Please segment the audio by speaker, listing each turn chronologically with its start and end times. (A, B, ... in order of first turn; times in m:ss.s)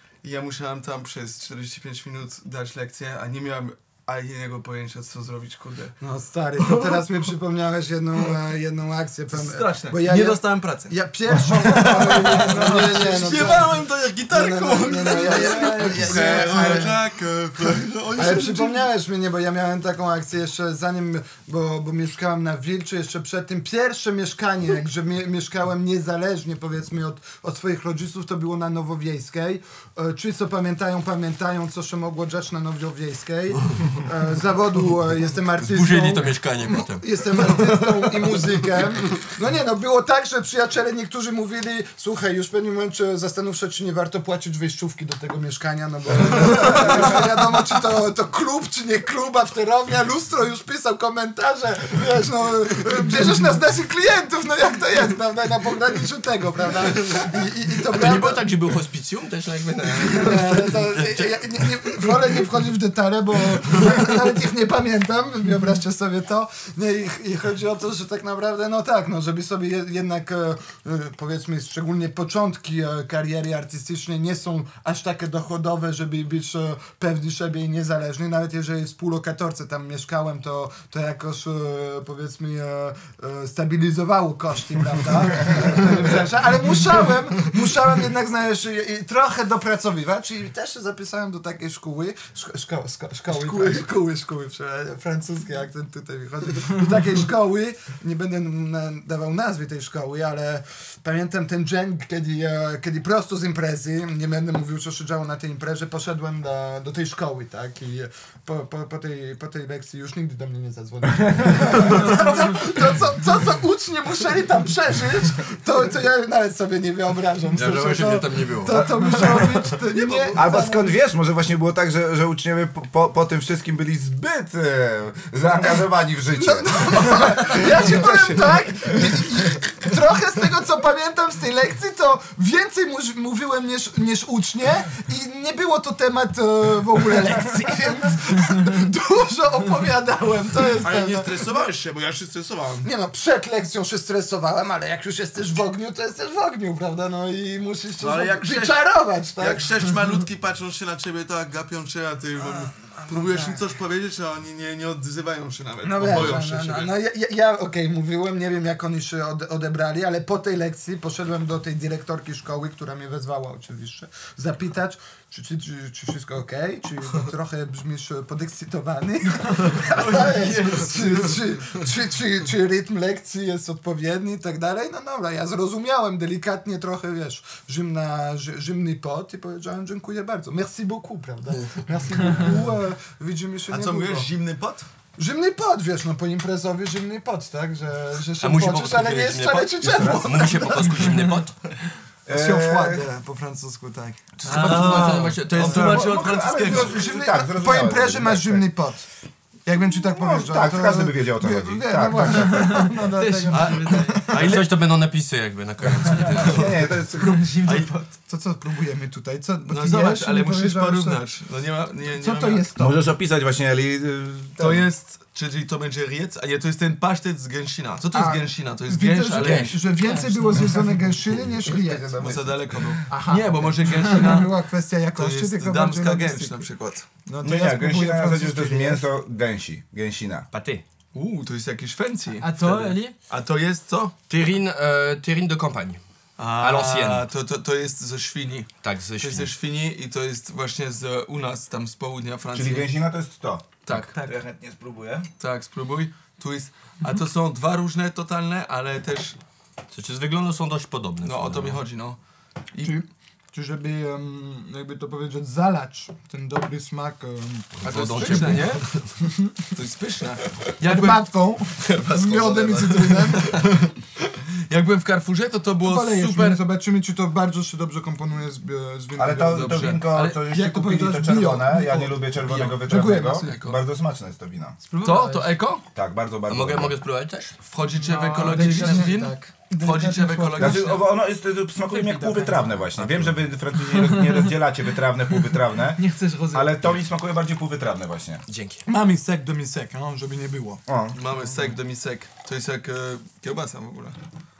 0:00.2-0:06.0 A
0:06.0-0:17.0 B
0:06.6-0:07.0 A
0:09.3-0:18.9 A
0:15.9-0:16.7 C
0:18.1-0:58.4 B
0:35.6-0:37.4 C
0:46.6-0:47.0 D
0:57.8-1:02.1 C
1:00.0-2:00.9 B
1:33.3-1:33.9 A
1:51.3-1:52.0 D
1:57.5-1:59.3 C
1:58.8-1:59.4 D
2:00.0-2:00.4 A
2:00.3-2:09.2 D
2:06.3-2:21.4 B
2:20.8-2:22.9 A
2:22.8-2:29.7 B
2:28.0-2:36.9 A
2:33.0-2:33.6 B
2:35.8-3:04.3 B
2:49.9-2:51.3 A
3:03.7-3:04.9 A
3:05.2-3:11.2 B
3:08.4-3:11.6 C
3:09.9-3:10.2 D
3:12.2-3:13.1 D
3:12.3-3:14.8 B
3:14.4-3:16.1 C
3:14.4-3:17.0 A
3:14.5-3:15.3 E
3:15.6-3:18.7 D
3:16.6-3:19.0 B
3:19.6-3:24.5 B
3:19.8-3:22.9 D
3:22.3-3:24.3 E
3:23.5-3:24.6 A
3:24.2-3:26.7 C
3:26.1-3:27.4 D
3:27.1-3:28.1 E
3:28.1-3:31.2 B
3:29.7-3:32.6 A
3:32.1-3:33.0 B
3:32.8-3:34.9 D
3:34.6-3:39.8 A
3:38.1-3:42.4 B
3:39.3-3:39.8 C
3:39.9-3:41.0 E
3:41.3-3:43.0 D
3:42.2-3:44.5 A
3:43.1-3:44.4 E
3:43.8-3:46.6 B
3:45.1-3:47.0 A
3:47.2-3:49.0 B
3:47.4-3:50.5 D
3:50.5-3:50.8 C
3:51.1-3:54.1 A
3:52.4-3:53.2 E
3:54.3-3:56.0 C
3:56.4-4:02.9 A
3:56.6-3:57.2 C
3:58.8-3:59.5 C
4:02.5-4:05.3 D
4:05.4-4:09.4 A
4:09.9-4:11.8 C
4:11.2-4:12.2 A
4:12.8-4:19.6 B
4:17.8-4:19.1 C
4:17.8-4:18.9 A
4:19.7-4:21.2 A
4:20.8-4:23.6 B
4:21.8-4:26.6 A
4:22.1-4:23.6 C
4:25.8-4:33.6 B
4:29.2-4:34.8 D
4:29.5-4:30.3 A
4:32.4-4:33.8 A
4:34.8-4:35.6 E
4:35.0-4:35.8 C
4:35.9-4:36.9 D
4:36.5-4:37.7 C
4:37.7-4:41.0 A
4:38.0-4:39.4 E
4:38.4-4:39.0 C
4:38.4-4:40.9 B
4:40.6-4:48.4 D
4:41.9-4:42.9 E
4:43.7-4:44.5 E
4:45.9-4:46.9 E
4:48.5-4:48.8 C
4:48.8-4:50.8 B
4:50.9-4:51.2 D
4:51.1-4:54.2 A